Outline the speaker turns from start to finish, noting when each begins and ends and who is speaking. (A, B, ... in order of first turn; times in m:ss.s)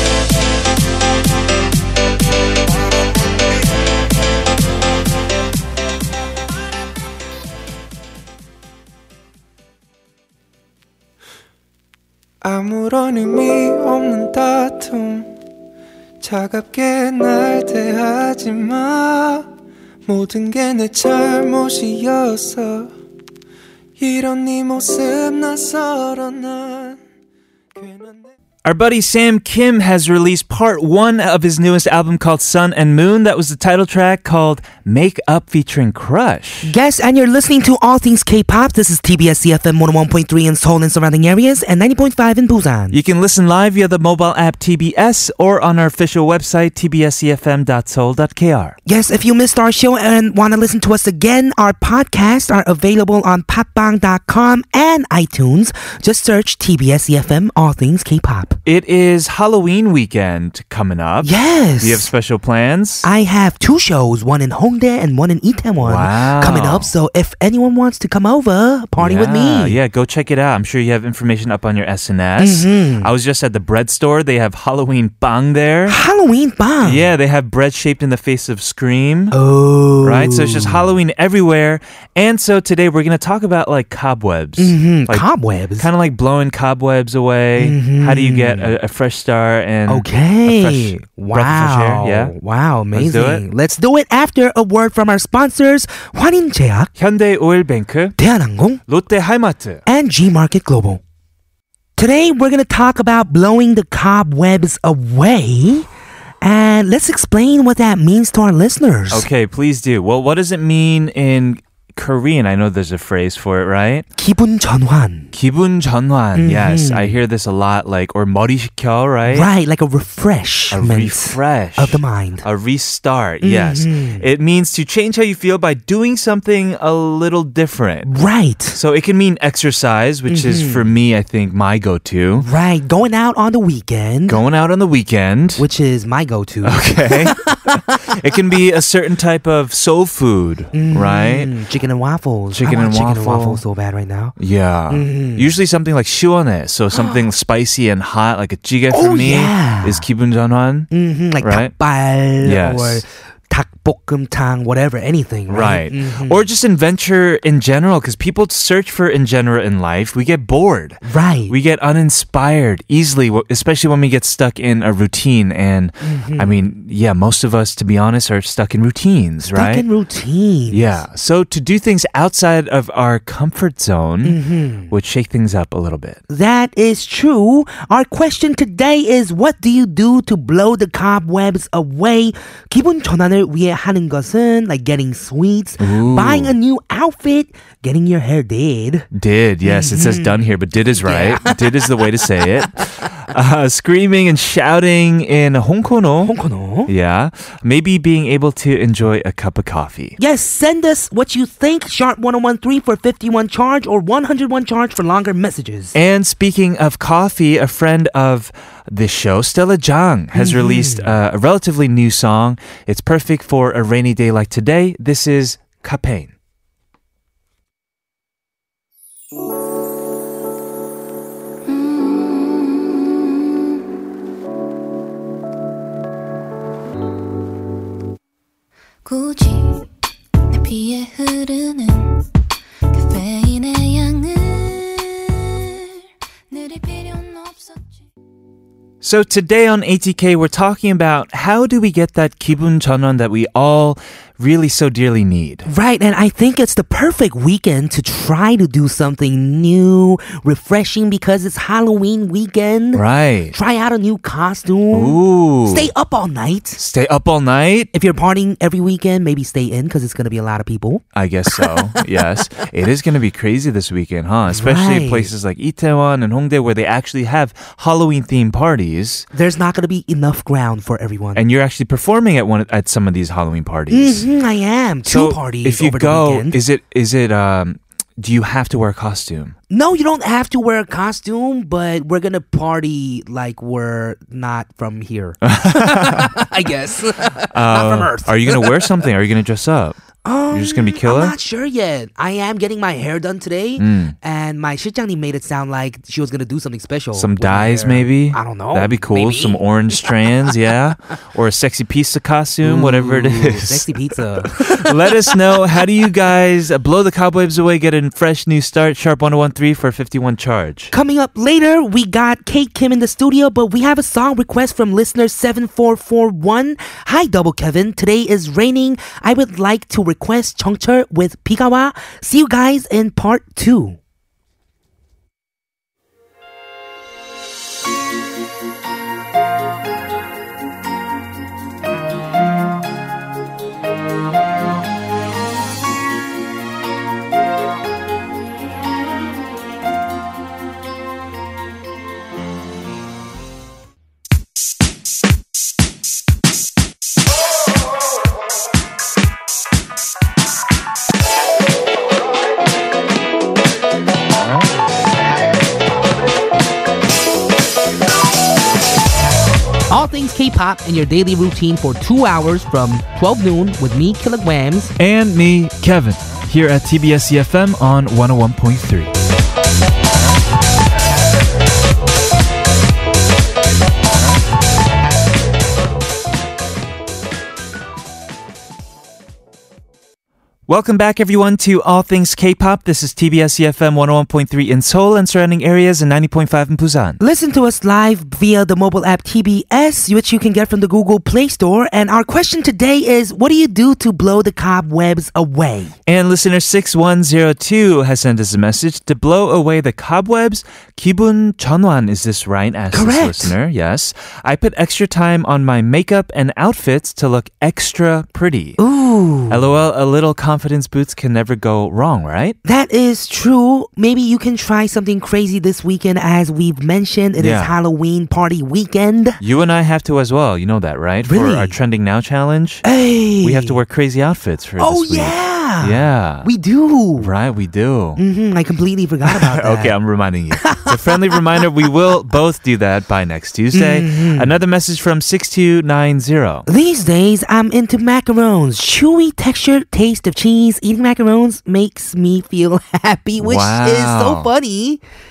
0:12.4-0:15.3 A
0:16.2-0:19.5 A
0:20.0-0:22.9 A
0:24.0-0:27.0 A
0:27.8-0:28.3 A
0:28.6-0:36.7 B
0:36.6-0:43.0 C
0:42.9-0:48.8 B
0:48.8-0:58.6 C
0:58.6-1:03.1 B
1:01.2-1:02.1 C
1:03.0-1:09.8 C
1:05.8-1:06.9 B
1:09.0-1:16.0 B
1:12.4-1:13.1 C
1:15.9-1:17.1 C
1:16.8-1:19.4 B
1:19.3-1:20.9 C
1:20.0-1:25.2 B
1:24.6-1:25.9 C
1:25.8-1:32.3 B
1:27.6-1:28.7 C
1:29.9-1:36.9 C
1:32.9-1:33.4 B
1:37.0-1:38.2 B
1:38.2-1:38.8 C
1:38.9-1:39.8 B
1:39.8-1:41.0 C
1:42.0-1:45.9 C
1:46.4-1:49.3 C
1:49.1-1:54.0 B
1:54.2-1:55.3 C
1:55.3-1:59.5 B
1:56.3-1:57.2 C
1:59.3-2:02.4 C
2:00.7-2:08.1 B
2:03.4-2:04.2 C
2:08.0-2:08.8 C
2:08.7-2:12.5 B
2:10.3-2:10.9 C
2:12.4-2:14.4 C
2:14.3-2:15.6 B
2:15.6-2:17.8 C
2:16.6-2:21.5 B
2:20.7-2:24.3 C
2:22.5-2:23.6 B
2:24.4-2:31.7 B
2:24.9-2:25.5 C
2:28.9-2:30.0 C
2:30.9-2:36.4 C
2:32.4-2:33.0 B
2:35.5-2:49.8 B
2:41.0-2:41.5 C
2:46.0-2:46.6 C
2:49.4-2:51.0 C
2:50.7-2:54.4 B
2:54.2-2:54.9 C
2:54.9-2:56.2 B
2:56.3-3:09.1 C
3:05.8-3:06.5 B
3:09.1-3:16.3 B
3:09.6-3:12.4 C
3:16.2-3:16.9 C
3:16.9-3:20.2 B
3:20.2-3:25.9 C
3:25.9-3:36.3 B
3:30.3-3:31.1 C
3:41.7-3:43.5 D
3:49.0-3:49.8 D
3:50.5-3:52.2 D
3:52.9-3:55.5 D
3:56.5-3:57.8 D
3:59.0-4:05.7 B
4:05.6-4:16.8 C
4:12.9-4:13.5 B
4:14.9-4:15.9 B
4:16.8-4:17.9 B
4:17.9-4:21.0 C
4:21.1-4:29.2 B
4:24.4-4:25.3 C
4:29.3-4:31.4 C
4:31.3-4:34.2 B
4:33.9-4:36.6 C
4:35.0-4:39.5 B
4:39.7-4:49.1 C
4:45.4-4:46.3 B
4:47.5-4:50.0 B
4:50.2-5:00.5 C
4:50.5-4:51.3 B
4:53.8-4:54.1 B
4:57.1-5:03.9 B
5:02.6-5:05.9 C
5:04.6-5:10.9 B
5:10.9-5:24.0 C
5:59.9-6:04.9 C
6:05.0-6:09.1 B
6:20.7-6:27.2 B
6:27.2-6:35.9 C
6:36.1-6:48.8 B
6:42.9-6:43.5 C
6:48.8-6:49.6 C
6:49.5-6:52.6 B
6:52.6-6:59.4 C
6:57.4-6:57.7 B
6:59.4-7:02.8 B
7:01.2-7:01.7 C
7:02.8-7:03.8 C
7:03.4-7:06.5 B
7:04.8-7:07.3 C
7:07.2-7:08.2 B
7:08.2-7:09.9 C
7:09.3-7:16.7 B
7:10.5-7:11.4 C
7:13.7-7:14.5 C
7:16.7-7:25.0 C
7:23.4-7:24.5 B